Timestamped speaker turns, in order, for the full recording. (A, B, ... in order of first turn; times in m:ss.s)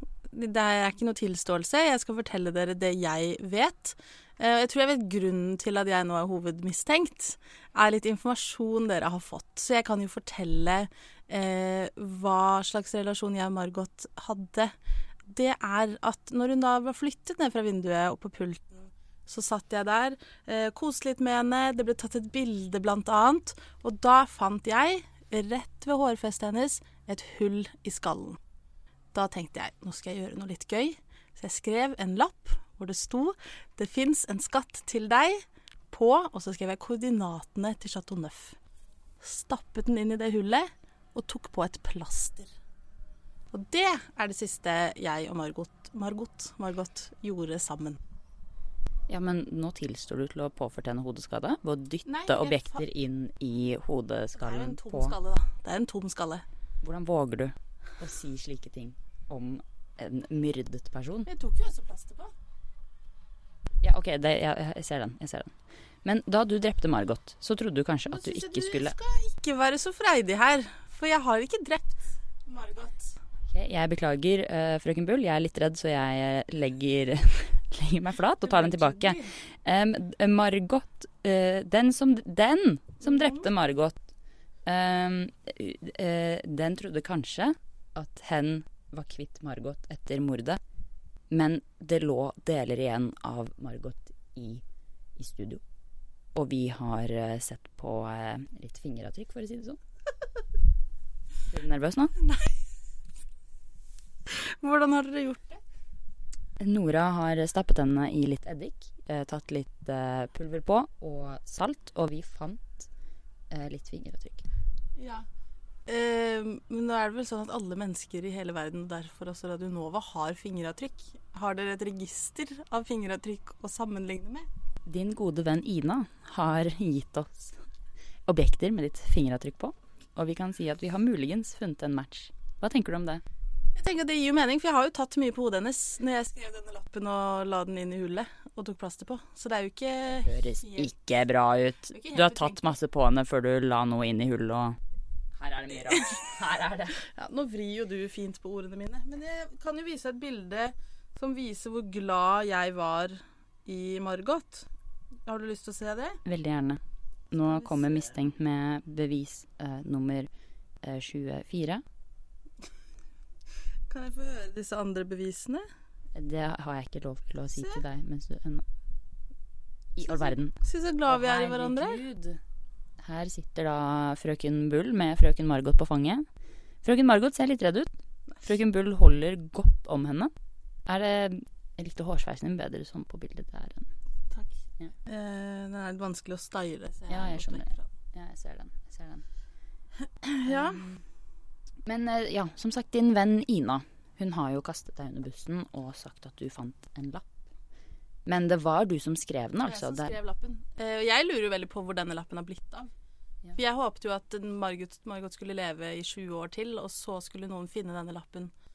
0:00.3-0:14.7 A
0:15.3-0:28.4 A
0:29.1-0:38.6 A
0:39.2-0:42.5 A
0:43.5-0:48.0 A
0:49.1-0:55.1 B
0:52.0-0:52.8 A
0:54.4-0:56.4 A
0:56.8-1:01.3 B
1:01.3-1:02.3 A
1:03.8-1:05.5 B
1:06.0-1:09.0 B
1:08.1-1:13.1 A
1:13.5-1:24.0 B
1:18.4-1:19.3 A
1:23.0-1:23.4 A
1:24.6-1:30.6 B
1:31.3-1:34.6 B
1:35.2-1:35.6 B
1:36.3-1:39.8 B
1:41.5-1:42.2 B
1:42.2-1:42.5 A
1:44.6-1:45.6 A
1:46.6-1:52.9 B
1:53.5-1:54.4 B
1:55.0-1:55.2 A
1:55.8-2:04.5 A
2:04.9-2:07.5 B
2:08.2-2:13.2 B
2:13.7-2:20.9 A
2:20.2-2:24.8 B
2:21.9-2:22.7 A
2:25.4-2:27.0 B
2:27.1-2:34.7 A
2:35.2-2:36.2 A
2:36.2-2:36.8 B
2:37.3-2:40.3 B
2:37.5-2:38.1 A
2:40.8-2:41.8 B
2:43.9-2:45.6 A
2:46.1-2:48.6 B
2:49.9-2:50.5 B
2:50.0-2:52.0 A
2:51.1-2:52.4 B
2:53.0-2:56.2 B
2:56.8-3:00.3 B
3:00.9-3:03.9 B
3:04.3-3:07.8 A
3:07.1-3:09.2 B
3:10.2-3:10.8 A
3:10.4-3:11.0 B
3:11.8-3:17.2 B
3:18.2-3:20.1 B
3:19.6-3:22.9 A
3:23.5-3:28.5 A